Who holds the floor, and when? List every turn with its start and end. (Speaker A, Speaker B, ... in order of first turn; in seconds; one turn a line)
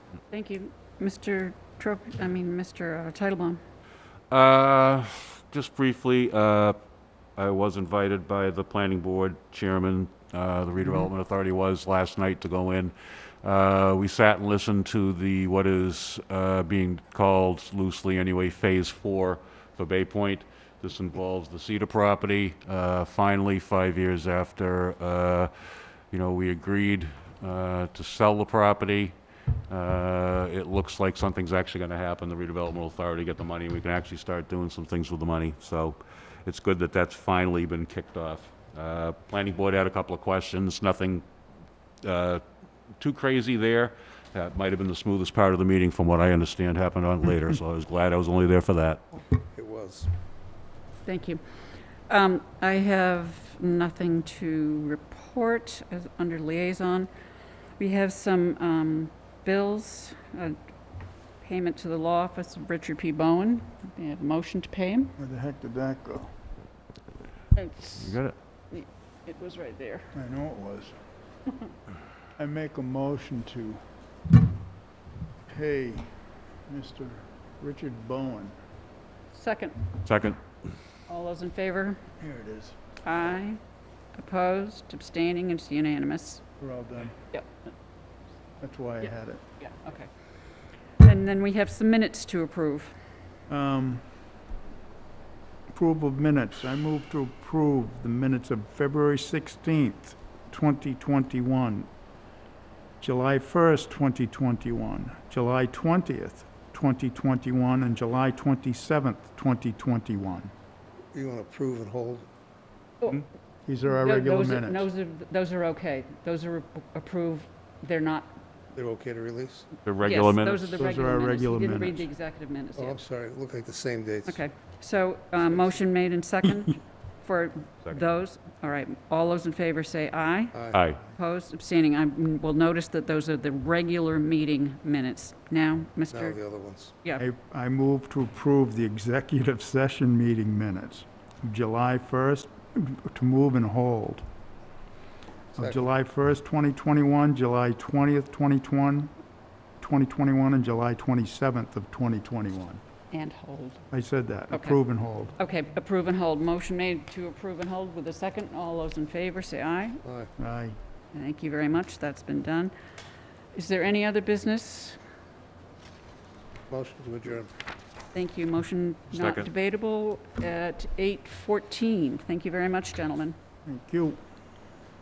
Speaker A: 0.3-3.6
Speaker B: 4.3-6.8
Speaker B: 7.3-29.1
Speaker B: 29.7-41.2
Speaker B: 42.0-42.4
Speaker B: 43.0-49.0
Speaker C: 49.3-50.1
Speaker A: 51.0-51.4
Speaker A: 52.1-57.1
Speaker A: 57.8-60.5
Speaker A: 61.4-65.1
Speaker D: 65.2-66.3
Speaker A: 67.5-68.2
Speaker B: 68.0-68.3
Speaker A: 68.7-70.1
Speaker D: 70.1-71.0
Speaker D: 72.4-73.8
Speaker D: 75.5-78.5
Speaker A: 79.3-79.8
Speaker B: 80.0-80.4
Speaker A: 81.1-82.0
Speaker D: 82.2-82.8
Speaker A: 83.0-83.6
Speaker A: 84.1-86.4
Speaker D: 86.6-87.2
Speaker D: 88.6-89.4
Speaker A: 89.6-90.1
Speaker A: 91.0-93.0
Speaker D: 93.5-94.1
Speaker D: 95.7-101.9
Speaker D: 103.0-110.5
Speaker C: 111.1-112.3
Speaker D: 113.7-114.9
Speaker A: 113.9-118.4
Speaker C: 118.7-119.7
Speaker B: 119.8-120.8
Speaker A: 120.0-123.0
Speaker D: 120.8-122.0
Speaker C: 122.8-124.4
Speaker A: 124.3-136.4
Speaker D: 126.4-126.7
Speaker C: 130.5-130.8
Speaker B: 130.7-131.0
Speaker C: 136.1-136.9
Speaker D: 137.2-144.2
Speaker C: 145.5-145.8
Speaker D: 145.5-149.1
Speaker D: 149.8-152.8
Speaker A: 153.1-153.8
Speaker D: 153.9-155.3
Speaker A: 154.5-154.8
Speaker A: 155.4-160.0
Speaker C: 160.0-160.3
Speaker D: 160.4-160.8
Speaker A: 161.1-162.7
Speaker A: 163.5-165.0
Speaker C: 166.7-167.5
Speaker A: 168.1-173.3
Speaker B: 169.1-169.5
Speaker D: 173.6-174.2